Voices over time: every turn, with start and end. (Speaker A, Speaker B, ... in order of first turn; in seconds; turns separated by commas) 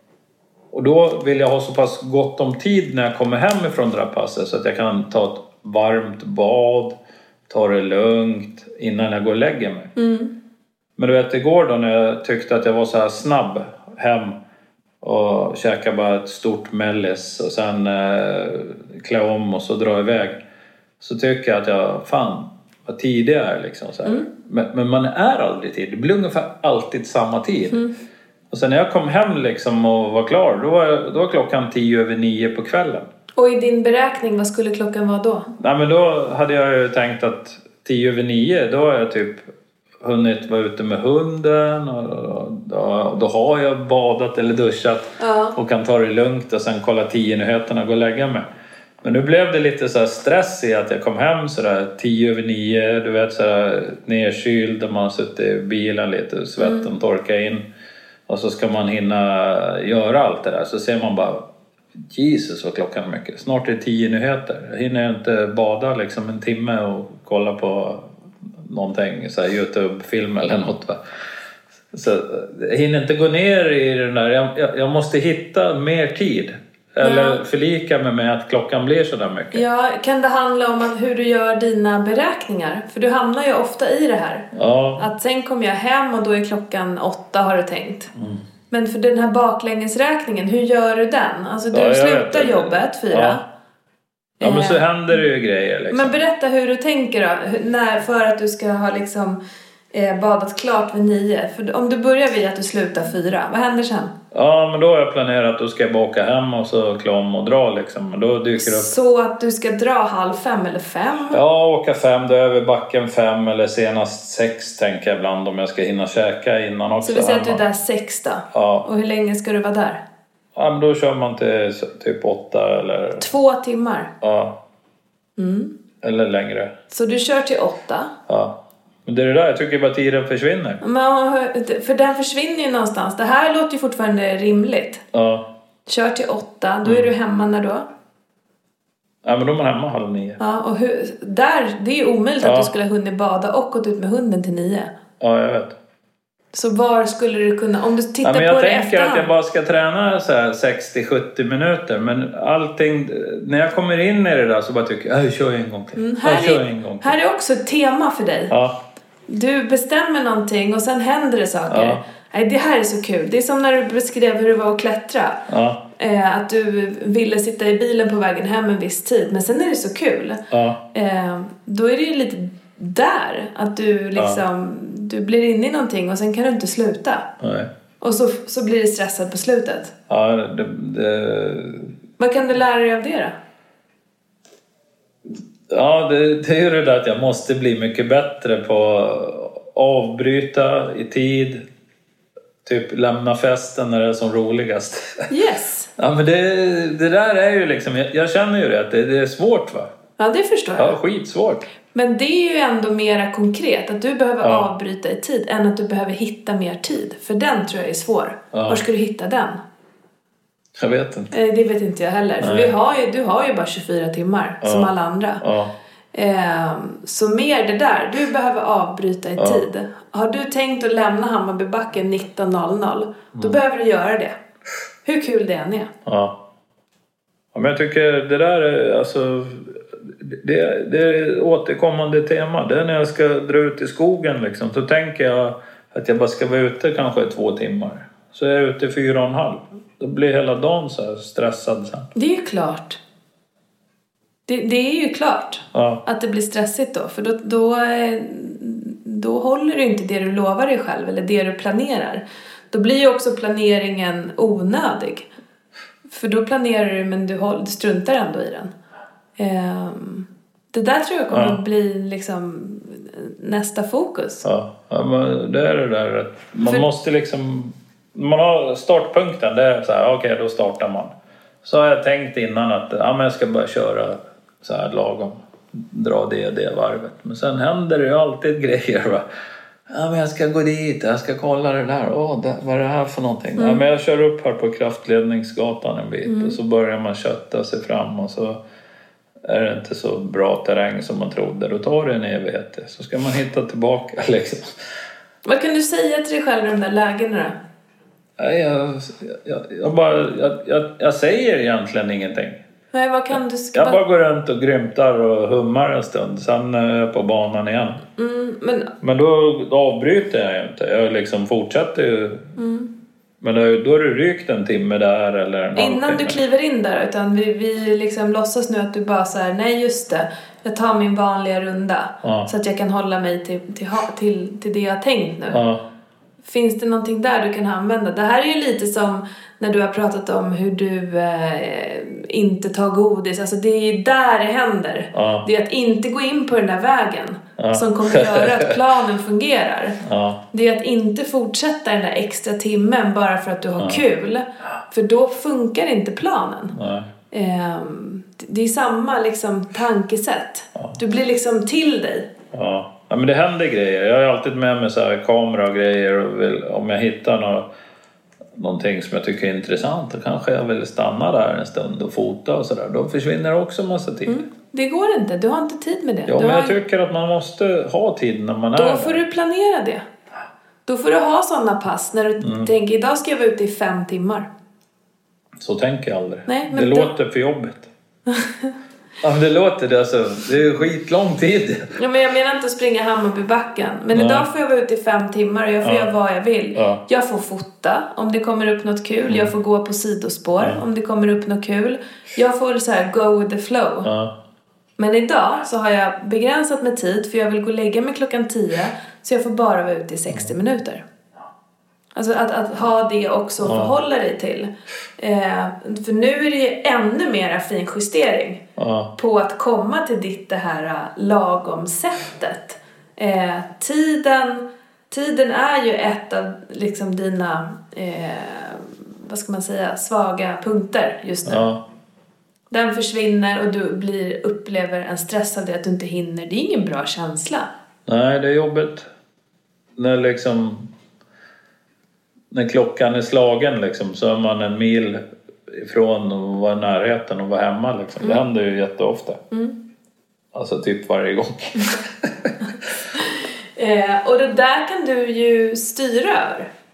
Speaker A: 0.7-7.0, Speaker A: 7.5-9.9, Speaker B: 9.9-10.3, Speaker A: 11.0-14.4, Speaker A: 15.0-20.4, Speaker A: 21.0-27.8, Speaker A: 28.5-33.1, Speaker B: 33.4-35.5, Speaker A: 35.6-39.5, Speaker A: 40.0-48.4, Speaker B: 45.2-45.5, Speaker A: 49.0-57.6, Speaker B: 56.6-56.9, Speaker A: 58.3-61.5, Speaker A: 62.1-68.1, Speaker A: 68.6-71.0, Speaker A: 71.9-79.6, Speaker B: 77.0-77.4, Speaker B: 79.5-88.1, Speaker A: 84.5-85.1, Speaker A: 88.2-88.4, Speaker B: 88.7-93.4, Speaker A: 91.7-93.4, Speaker B: 94.4-95.2, Speaker A: 94.4-96.2, Speaker B: 95.9-99.4, Speaker B: 99.9-104.1, Speaker A: 104.3-108.9, Speaker B: 108.6-111.4, Speaker A: 111.3-117.6, Speaker B: 117.0-120.0, Speaker A: 118.5-118.9, Speaker A: 120.5-123.3, Speaker B: 123.2-124.1, Speaker A: 124.2-124.6, Speaker B: 125.4-125.7, Speaker A: 126.0-126.8, Speaker B: 126.9-128.1, Speaker A: 128.3-130.8, Speaker B: 130.8-135.0, Speaker A: 135.1-135.5, Speaker B: 135.9-137.8, Speaker A: 136.8-137.1, Speaker A: 139.2-140.4, Speaker B: 140.4-144.9, Speaker A: 142.4-142.7, Speaker A: 145.2-145.8, Speaker B: 146.5-149.3, Speaker A: 148.2-157.2, Speaker B: 155.9-158.5, Speaker A: 158.5-158.8, Speaker B: 159.3-165.4, Speaker A: 161.7-162.0, Speaker A: 165.5-165.8, Speaker B: 166.0-170.4, Speaker A: 170.5-170.8, Speaker B: 170.9-177.3, Speaker A: 174.2-174.4, Speaker A: 177.4-177.7, Speaker B: 178.0-179.9, Speaker A: 180.1-181.9, Speaker B: 182.2-183.3, Speaker A: 185.7-191.6, Speaker A: 192.6-195.3, Speaker B: 195.3-195.9, Speaker A: 196.0-199.9, Speaker B: 200.2-200.9, Speaker A: 200.8-201.7, Speaker B: 201.9-209.6, Speaker A: 204.4-204.7, Speaker A: 208.5-208.8, Speaker A: 210.8-211.3, Speaker B: 211.3-215.4, Speaker A: 212.4-212.7, Speaker A: 214.6-215.7, Speaker B: 216.1-224.3, Speaker A: 219.4-219.7, Speaker B: 225.0-225.9, Speaker A: 226.1-226.4, Speaker A: 227.5-242.1, Speaker B: 242.1-243.0, Speaker B: 244.5-255.3, Speaker A: 245.7-246.0, Speaker B: 256.1-258.7, Speaker B: 259.4-264.4, Speaker A: 261.3-261.6, Speaker A: 264.4-279.2, Speaker A: 279.9-288.6, Speaker B: 283.6-283.8, Speaker B: 286.2-286.6, Speaker A: 289.4-294.7, Speaker B: 295.4-297.6, Speaker A: 298.4-302.6, Speaker B: 302.9-304.0, Speaker A: 303.7-308.0, Speaker B: 308.2-308.9, Speaker A: 309.0-312.5, Speaker B: 312.6-312.9, Speaker A: 313.4-316.4, Speaker B: 315.8-325.6, Speaker A: 322.2-322.5, Speaker A: 325.5-325.8, Speaker B: 326.4-340.0, Speaker A: 335.1-335.5, Speaker A: 337.6-338.8, Speaker A: 340.0-340.4, Speaker B: 340.5-346.8, Speaker A: 346.7-347.1, Speaker B: 347.3-352.3, Speaker A: 352.5-357.7, Speaker A: 358.5-364.5, Speaker B: 364.3-366.8, Speaker A: 366.3-369.2, Speaker B: 368.8-370.0, Speaker B: 370.9-374.5, Speaker A: 372.4-372.7, Speaker A: 375.6-377.9, Speaker B: 376.5-377.1, Speaker B: 378.3-378.7, Speaker A: 379.2-382.0, Speaker B: 381.9-394.1, Speaker A: 384.1-384.5, Speaker A: 385.8-386.1, Speaker A: 386.7-387.0, Speaker A: 394.0-394.4, Speaker B: 395.0-401.0, Speaker B: 402.1-408.6, Speaker A: 403.6-403.9, Speaker A: 408.8-409.1, Speaker B: 409.2-421.6, Speaker A: 421.4-421.8, Speaker B: 422.7-427.7, Speaker A: 428.1-429.1, Speaker A: 430.0-430.9, Speaker A: 432.5-439.4, Speaker B: 439.5-439.8, Speaker A: 440.5-442.5, Speaker B: 443.1-446.7